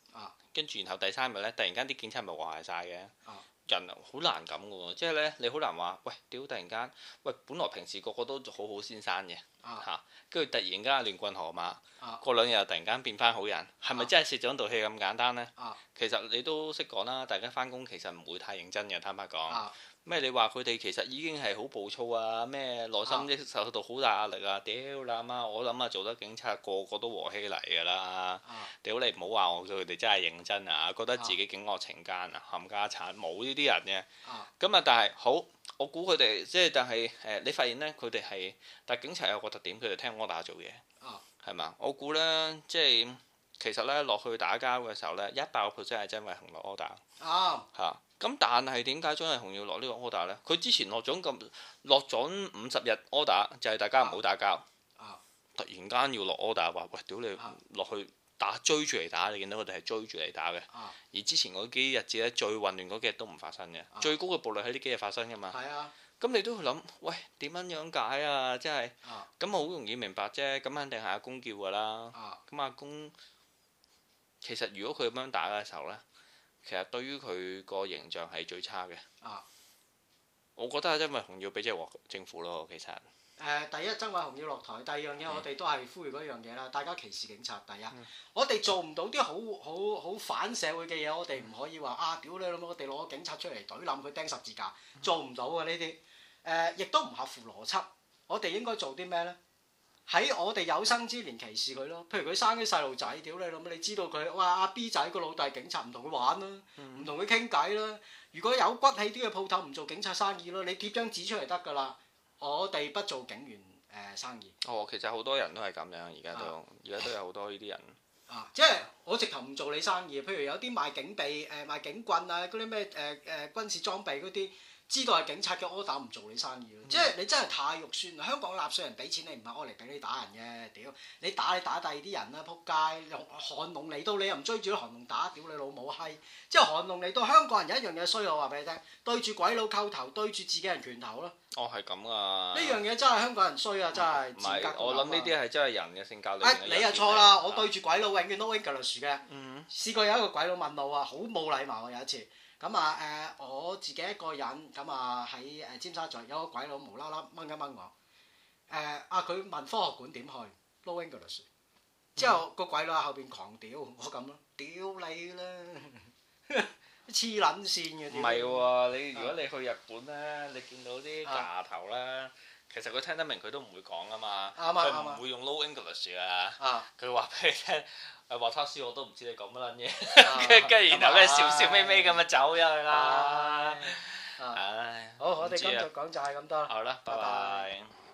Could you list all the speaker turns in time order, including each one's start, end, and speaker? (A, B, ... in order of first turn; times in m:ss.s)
0:00.5-0:03.1 A
0:03.7-0:34.1 A
0:19.5-0:19.8 B
0:28.4-0:28.7 B
0:34.2-0:34.5 B
0:34.6-0:40.8 A
0:41.4-0:47.0 A
0:47.2-0:47.7 B
0:47.7-0:54.6 A
0:55.6-1:05.6 A
1:00.7-1:01.0 B
1:05.5-1:05.9 B
1:06.2-1:13.1 A
1:12.1-1:12.4 B
1:14.4-1:16.0 A
1:16.6-1:19.0 A
1:20.6-1:23.0 A
1:23.4-1:39.4 B
1:40.1-1:54.6 B
1:46.8-1:47.1 A
1:54.6-1:58.0 A
1:58.3-2:21.4 B
2:21.5-2:22.8 A
2:22.5-2:25.3 B
2:23.9-2:27.7 A
2:26.4-2:37.9 B
2:29.3-2:29.7 A
2:38.7-2:41.5 B
2:42.2-2:42.4 A
2:42.2-2:49.3 B
2:48.1-3:05.9 A
2:54.6-2:55.2 B
2:56.6-2:56.9 B
3:00.2-3:02.2 B
3:02.9-3:04.6 B
3:05.2-3:07.7 B
3:06.7-3:07.9 A